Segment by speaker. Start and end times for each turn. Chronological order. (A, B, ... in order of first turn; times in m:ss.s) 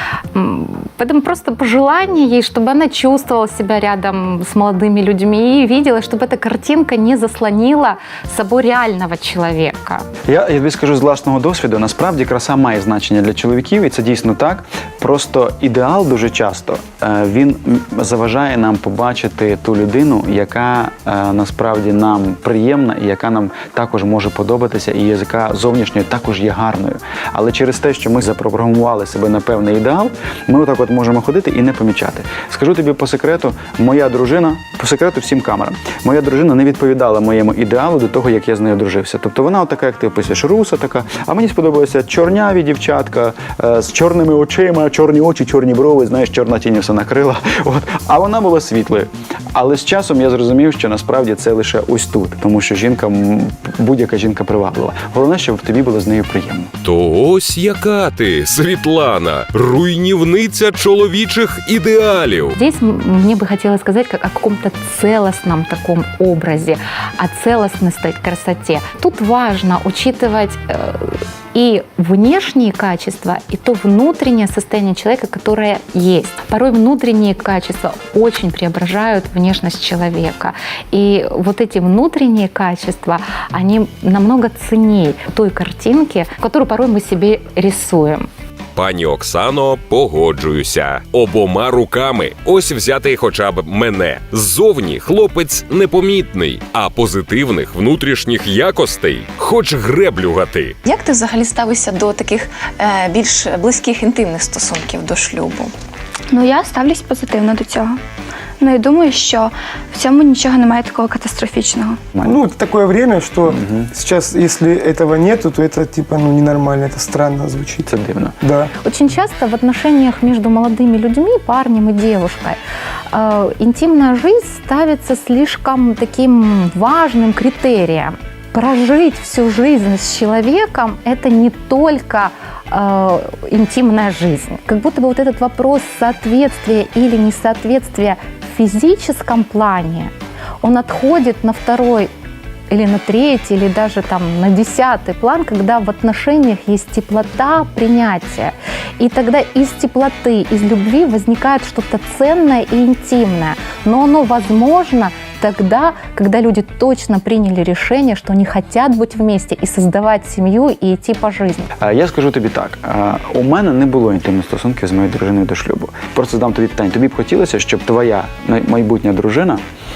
0:00.3-0:10.1 A
0:10.3-0:56.7 B
0:56.8-1:02.6 C
1:02.6-1:28.3 A
1:28.8-1:40.8 C
1:40.8-1:45.7 D
1:46.3-1:48.0 E
1:48.6-1:52.0 E
1:52.2-1:57.9 F
1:53.5-1:53.9 B
1:57.9-1:58.4 B
1:58.4-1:58.7 F
1:58.8-2:02.6 A
2:03.1-2:22.1 A
2:22.7-2:41.7 A
2:41.8-2:49.6 B